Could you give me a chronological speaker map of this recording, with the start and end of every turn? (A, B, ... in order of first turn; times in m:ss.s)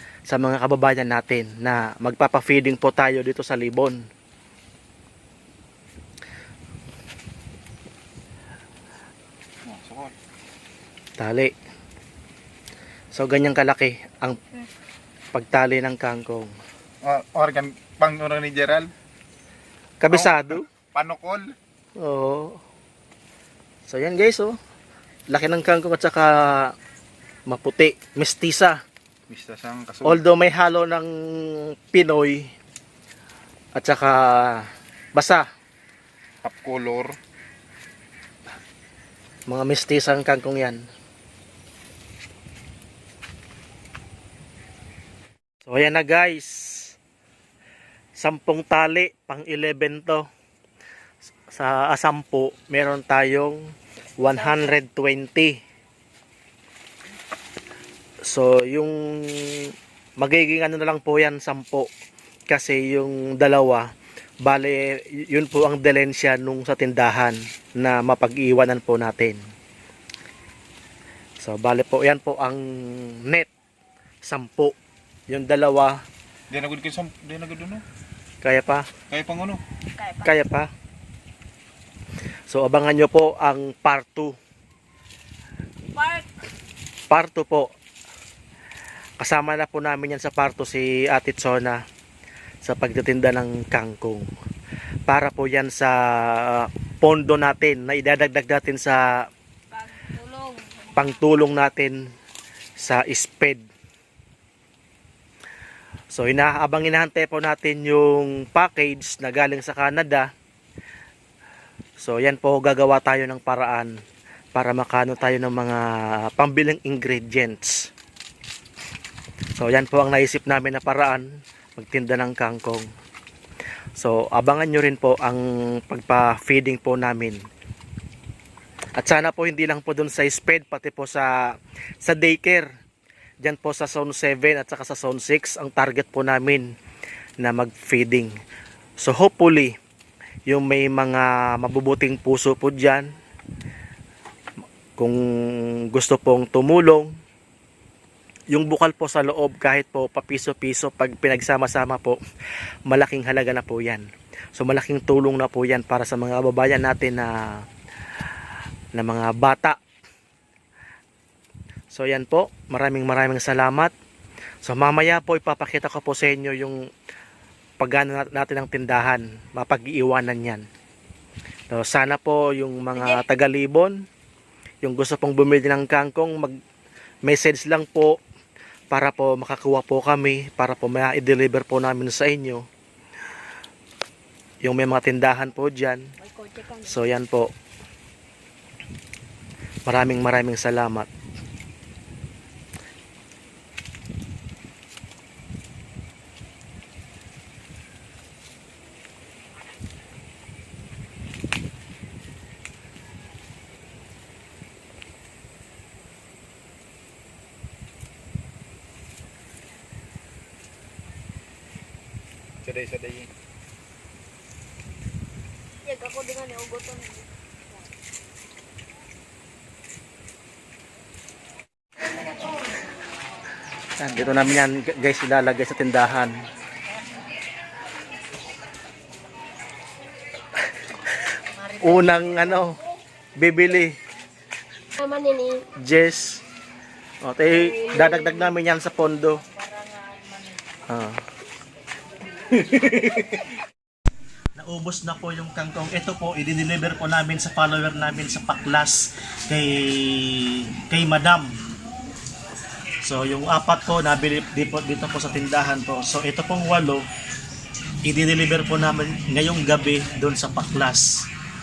0:00.3-0:04.0 A
0:09.6-0:10.1 B
0:11.2-0:11.5 A
0:13.1-0:14.4 A
0:15.3-0:16.5 A
0:17.0-0:18.9 B
0:20.0-0:20.7 A
0:20.1-0:21.6 B
0:22.0-0:22.6 A
0:23.9-0:24.6 A
0:25.3-0:26.7 A
0:27.5-0:28.8 A
0:29.3-0:30.2 B
0:30.0-0:32.5 A
0:33.8-0:35.4 A
0:36.4-0:37.2 B
0:39.5-0:40.8 A
0:45.6-0:46.9 A
0:48.2-0:50.3 A
0:51.5-0:53.6 A
0:54.2-0:55.6 A
0:58.2-1:01.9 A
1:02.5-1:03.8 A
1:04.4-1:09.4 A
1:11.4-1:13.5 A
1:14.2-1:14.7 A
1:15.3-1:16.0 A
1:16.5-1:17.8 B
1:18.4-1:18.9 A
1:19.1-1:19.6 B
1:20.0-1:20.3 C
1:20.2-1:20.7 A
1:22.5-1:24.4 A
1:25.9-1:26.3 C
1:27.1-1:27.7 A
1:29.2-1:31.8 A
1:32.6-1:34.3 A
1:35.1-1:39.2 A
1:39.7-1:41.2 C
1:41.0-1:42.1 A
1:42.8-1:43.6 A
1:46.1-1:50.3 A
1:52.0-1:53.9 A
1:54.5-1:57.9 A
1:59.6-2:02.9 A
2:04.0-2:07.4 A
2:09.0-2:12.7 A
2:13.4-2:16.7 A
2:17.4-2:18.3 A
2:19.0-2:19.7 A
2:20.5-2:23.1 A
2:25.0-2:27.1 A
2:28.5-2:32.2 A
2:32.9-2:37.6 A
2:38.9-2:39.8 A
2:41.9-2:43.9 A
2:44.6-2:46.8 A
2:47.8-2:50.7 A
2:51.7-2:54.0 A
2:52.9-2:53.2 C
2:54.8-2:56.6 A
2:57.2-2:58.2 A
2:58.9-3:02.6 A
3:04.6-3:06.1 A
3:06.2-3:07.0 C
3:06.8-3:07.5 A
3:09.8-3:11.1 A
3:32.6-3:33.3 B
3:35.8-3:37.8 C
3:44.0-3:46.4 A
3:51.6-3:52.8 A
3:53.4-3:54.0 A
3:55.0-3:55.6 C
3:55.6-3:56.4 A
3:57.2-3:59.4 A
4:00.9-4:01.2 A
4:02.5-4:03.4 A
4:04.6-4:11.6 A
4:13.0-4:17.1 A
4:18.0-4:21.3 A